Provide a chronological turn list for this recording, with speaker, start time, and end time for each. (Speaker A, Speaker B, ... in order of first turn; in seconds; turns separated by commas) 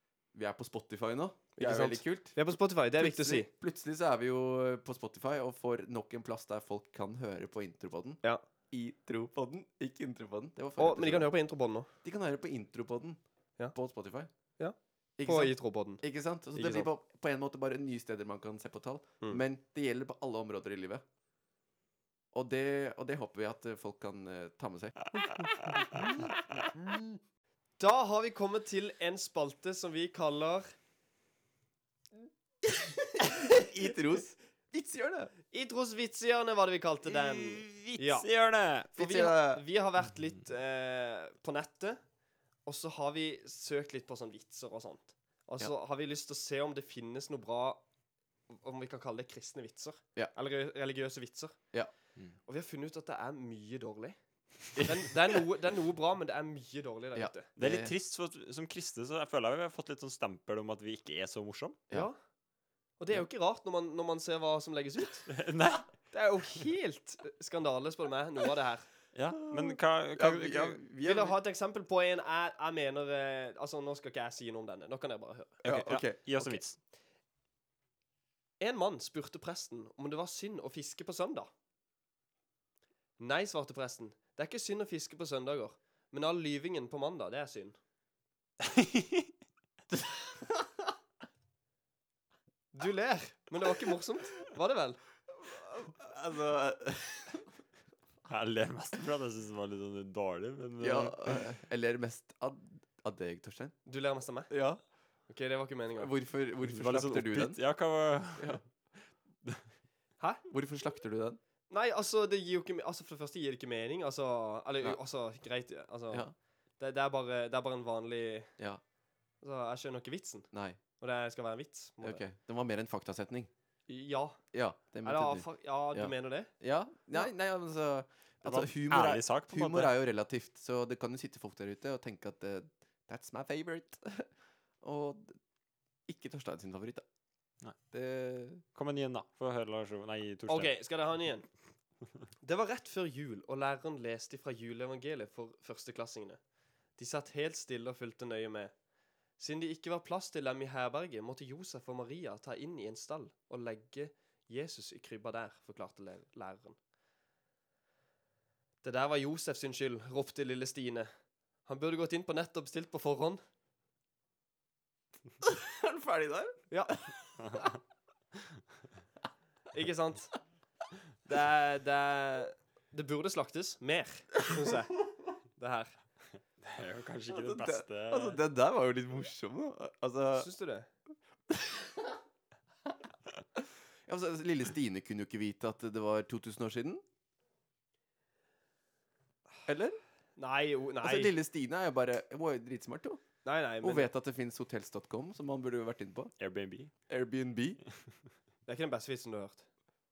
Speaker A: 0.3-11.3, Speaker B: 1.6-3.5, Speaker B: 10.8-11.9, Speaker A: 12.0-13.2, Speaker A: 13.7-14.3, Speaker B: 14.6-16.0, Speaker A: 15.2-21.0, Speaker B: 16.5-16.9, Speaker A: 22.3-25.0, Speaker C: 25.4-26.2, Speaker A: 25.9-26.2, Speaker B: 27.8-30.6, Speaker A: 33.2-35.3, Speaker B: 35.5-38.3, Speaker C: 37.2-38.9, Speaker A: 38.9-39.6, Speaker B: 38.9-42.0, Speaker B: 42.6-47.8, Speaker B: 48.5-51.6, Speaker B: 52.5-54.2, Speaker B: 54.7-57.5, Speaker A: 57.1-57.9, Speaker C: 57.6-61.8, Speaker B: 63.0-65.3, Speaker C: 65.3-65.9, Speaker B: 66.1-68.9, Speaker C: 69.1-70.8, Speaker A: 69.5-71.3, Speaker B: 71.0-75.6, Speaker A: 75.6-76.6, Speaker C: 75.6-76.8, Speaker B: 78.6-81.5, Speaker B: 83.2-87.8, Speaker C: 88.6-89.3, Speaker A: 90.4-90.7, Speaker B: 92.7-95.0, Speaker A: 95.4-97.5, Speaker C: 98.2-101.4, Speaker A: 100.8-103.8, Speaker B: 103.8-104.5, Speaker A: 104.5-104.8, Speaker B: 105.3-106.1, Speaker A: 106.0-107.6, Speaker C: 106.6-108.6, Speaker A: 108.4-108.6, Speaker A: 110.5-111.4, Speaker B: 111.7-118.5, Speaker B: 119.4-122.2, Speaker A: 120.5-120.8, Speaker A: 122.0-123.5, Speaker B: 123.9-124.4, Speaker A: 124.5-134.3, Speaker B: 125.0-126.5, Speaker C: 128.4-129.9, Speaker A: 134.8-135.4, Speaker A: 136.1-137.0, Speaker A: 137.9-138.6, Speaker C: 138.7-140.7, Speaker B: 140.5-141.5, Speaker B: 142.4-146.4, Speaker B: 147.0-148.7, Speaker B: 149.4-156.8, Speaker B: 158.8-161.1, Speaker B: 161.6-163.4, Speaker A: 165.4-167.1, Speaker B: 166.7-167.0, Speaker C: 167.4-167.8, Speaker B: 169.7-170.3, Speaker B: 171.3-175.0, Speaker B: 175.5-175.9, Speaker C: 176.6-178.4, Speaker A: 177.3-180.5, Speaker B: 180.3-180.9, Speaker A: 181.5-182.1, Speaker A: 183.6-187.0, Speaker A: 189.7-190.0, Speaker B: 190.4-191.3, Speaker A: 191.0-193.2, Speaker B: 193.4-194.1, Speaker A: 193.8-196.3, Speaker C: 196.4-196.9, Speaker A: 197.1-197.8, Speaker B: 198.7-199.6